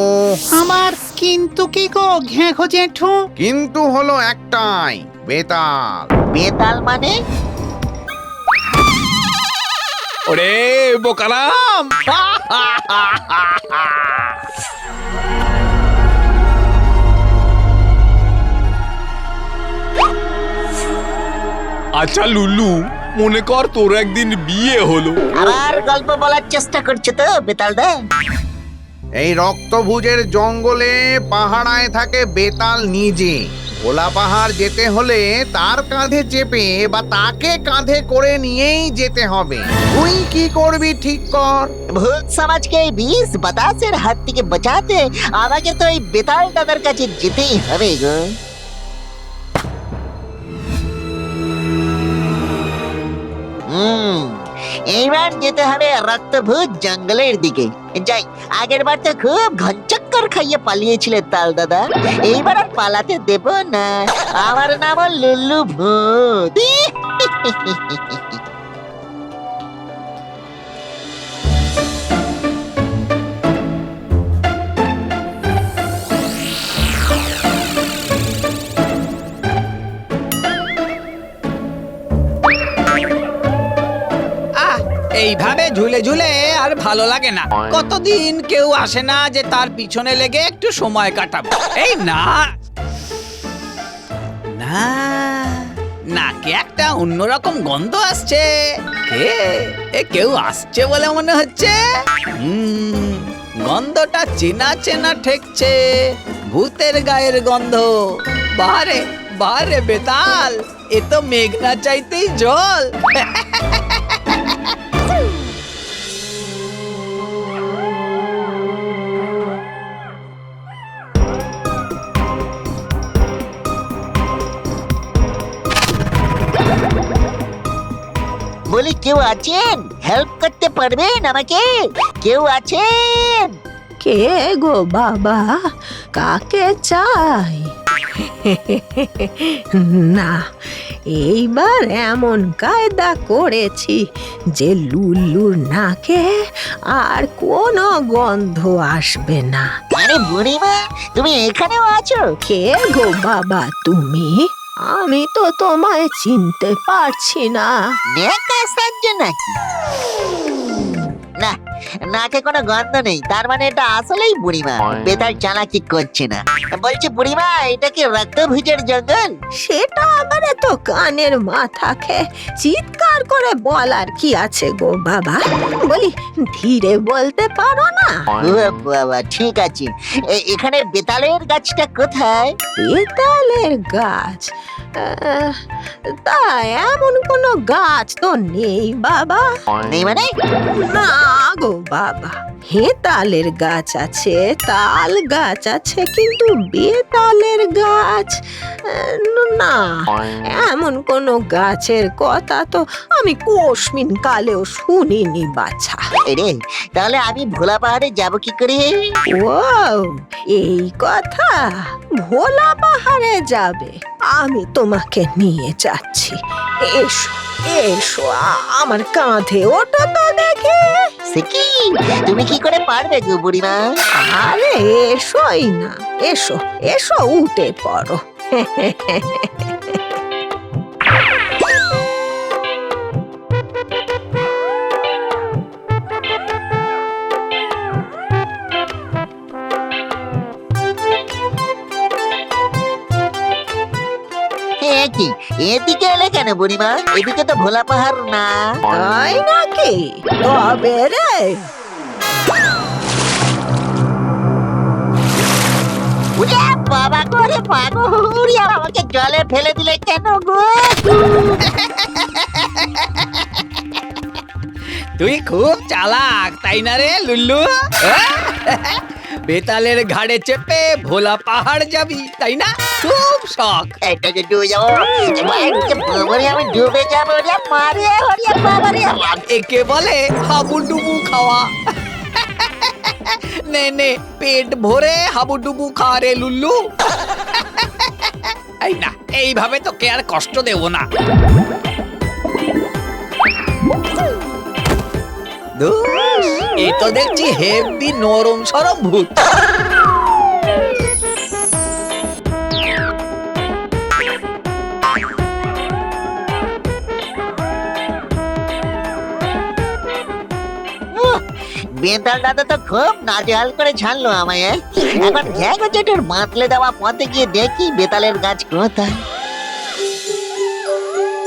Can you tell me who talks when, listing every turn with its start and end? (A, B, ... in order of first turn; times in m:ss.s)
0:00.5-0:03.3 A
0:03.4-0:06.1 B
0:06.3-0:07.1 C
0:10.3-0:14.2 D
0:22.0-0:25.2 E
0:22.0-0:22.7 D
0:23.2-0:24.7 D
0:25.4-0:27.9 C
0:29.2-0:41.8 B
0:42.0-0:48.3 C
0:53.7-1:08.4 C
1:24.6-1:32.4 D
1:34.5-1:38.5 D
1:39.0-1:41.8 D
1:42.4-1:48.0 D
1:48.6-1:54.5 D
2:08.7-2:11.7 C
2:12.2-2:13.5 C
2:14.0-2:15.6 F
2:16.2-2:24.0 F
2:24.6-2:26.2 F
2:26.9-2:29.7 F
2:30.0-2:32.2 C
2:32.5-2:37.7 F
2:38.1-2:39.5 C
2:42.1-2:49.3 C
2:49.6-2:58.2 F
2:58.4-3:02.5 C
3:02.8-3:05.6 F
3:06.2-3:09.5 F
3:09.9-3:10.3 C
3:10.8-3:18.4 F
3:18.9-3:26.0 F
3:26.3-3:28.9 C
3:29.3-3:31.5 F
3:32.2-3:36.4 F
3:36.9-3:41.0 F
3:41.3-3:43.8 C
3:44.2-3:50.0 F
4:04.8-4:08.6 C
4:08.9-4:11.6 F
4:16.4-4:21.7 C
4:21.6-4:23.5 D
4:25.2-4:34.0 D
4:34.0-4:39.4 C
4:39.5-4:41.7 D
4:42.4-4:51.0 D
4:55.8-4:59.4 D
5:11.1-5:11.4 C
5:12.0-5:19.2 C